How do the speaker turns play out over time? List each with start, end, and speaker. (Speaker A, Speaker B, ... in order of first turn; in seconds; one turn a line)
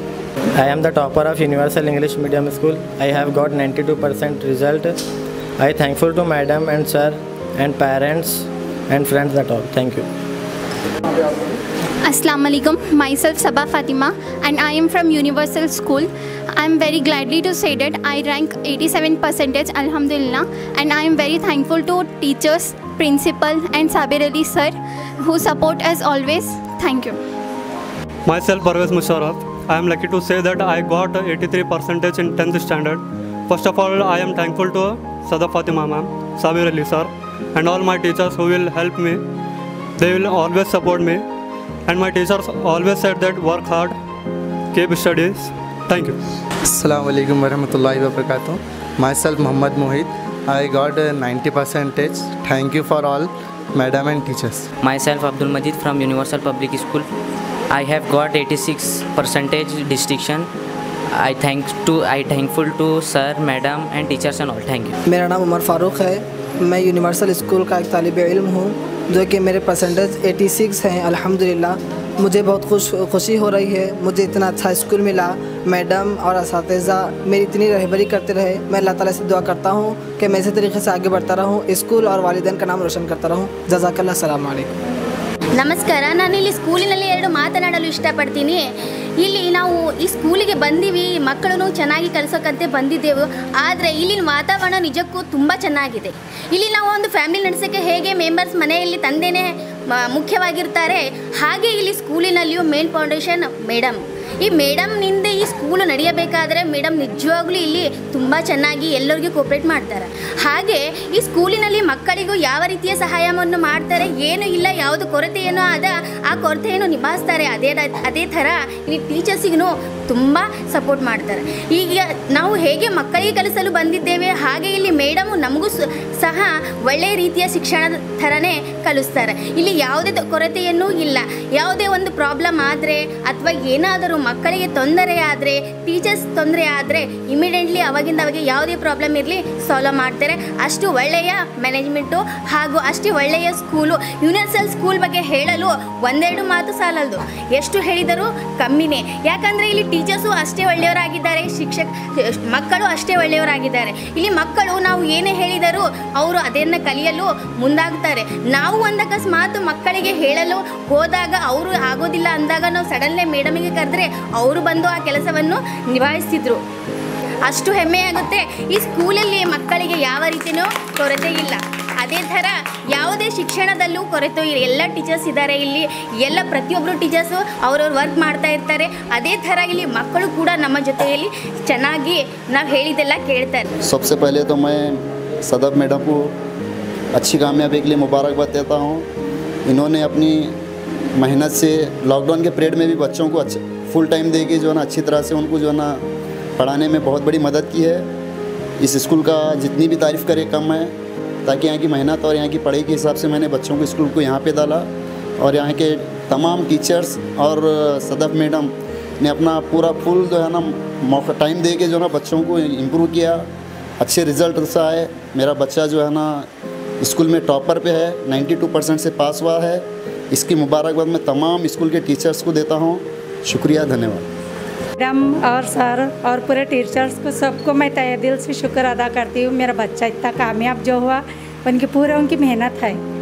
Speaker A: 0.6-5.0
Speaker A: 5.6-10.1
Speaker B: 12.0-27.2
Speaker C: 28.3-39.2
Speaker C: 40.0-41.2
Speaker C: 41.9-43.9
Speaker C: 44.7-46.1
Speaker D: 46.7-54.7
Speaker E: 54.8-57.1
Speaker E: 57.7-60.5
Speaker E: 61.1-64.9
Speaker F: 65.2-66.2
Speaker F: 66.7-68.7
Speaker F: 69.2-71.7
Speaker F: 72.3-84.7
Speaker G: 85.6-99.5
Speaker G: 100.1-151.9
Speaker G: 152.5-166.6
Speaker G: 167.4-183.7
Speaker H: 183.8-186.3
Speaker H: 187.1-189.1
Speaker H: 189.7-190.6
Speaker H: 191.2-196.0
Speaker H: 196.6-198.1
Speaker H: 198.8-200.9
Speaker H: 201.4-204.9
Speaker H: 205.4-208.7
Speaker H: 209.2-213.5
Speaker H: 214.0-216.5
Speaker H: 217.0-224.2
Speaker I: 225.0-233.0